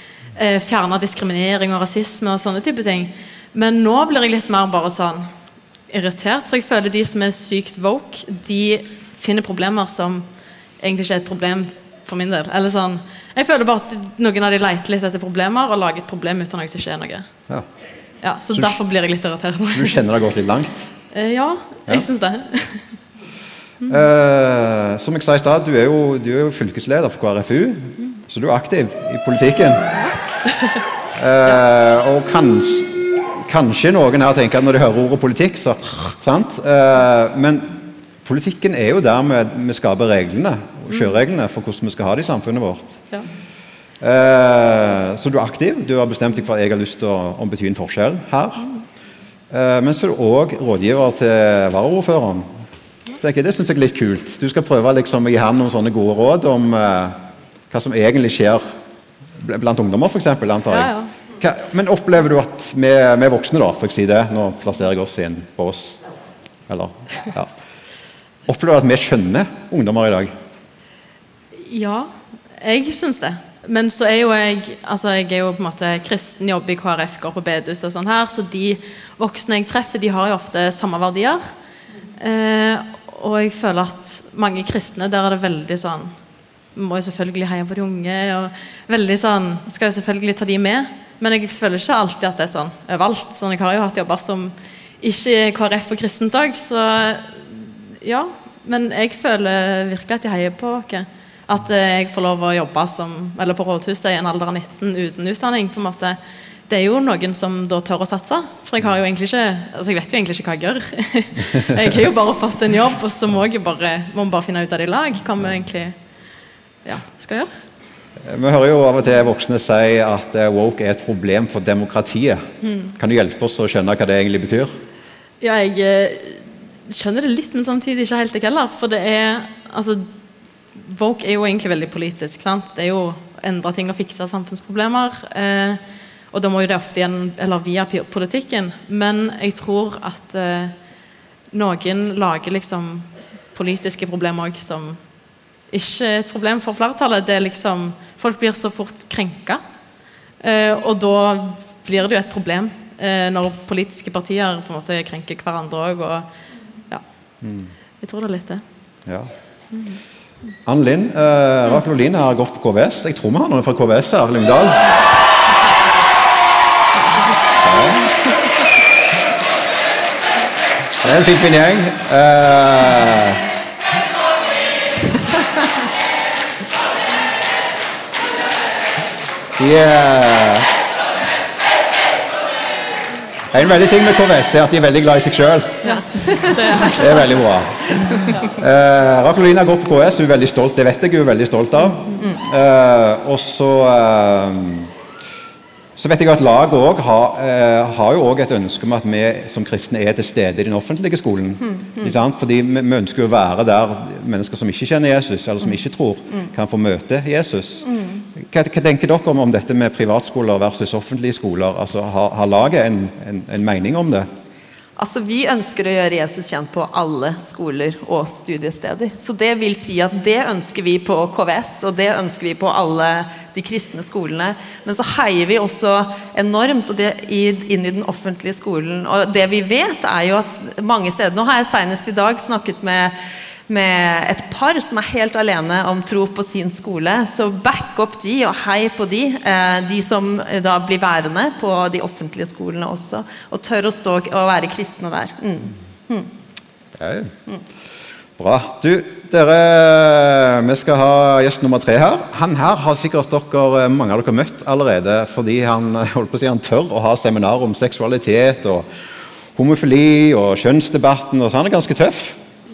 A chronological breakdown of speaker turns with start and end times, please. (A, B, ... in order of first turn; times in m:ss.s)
0:00.3-0:05.3 A
0:05.9-0:10.2 A
0:10.8-0:17.3 A
0:18.2-0:20.0 A
0:18.5-0:18.8 B
0:19.7-0:20.9 B
0:21.1-0:22.8 A
0:23.9-0:30.0 B
0:31.1-0:43.0 B
0:44.0-0:48.7 B
0:49.5-0:52.6 B
0:53.2-0:57.2 B
0:57.7-0:58.6 B
0:59.4-1:06.0 B
1:00.7-1:01.1 A
1:06.7-1:07.5 B
1:08.4-1:10.3 B
1:11.6-1:21.4 A
1:22.2-1:26.1 A
1:26.7-1:55.9 A
1:56.8-1:57.5 A
1:58.2-2:04.7 B
2:05.4-2:10.1 A
2:10.8-2:15.8 A
2:16.3-2:20.7 A
2:21.5-2:25.0 A
2:25.7-2:29.6 A
2:30.4-2:36.3 A
2:37.4-2:37.7 B
2:38.0-2:38.6 A
2:39.7-2:40.0 A
2:40.6-2:44.9 B
2:47.6-2:48.2 B
2:51.0-2:53.4 B
2:59.6-3:00.7 B
3:03.5-3:06.0 B
3:06.5-3:07.1 A
3:06.8-3:14.9 B
3:16.0-3:34.3 B
3:35.0-3:53.1 C
3:53.7-4:06.3 C
4:07.0-4:07.3 B
4:08.4-4:18.8 B
4:19.5-4:22.4 B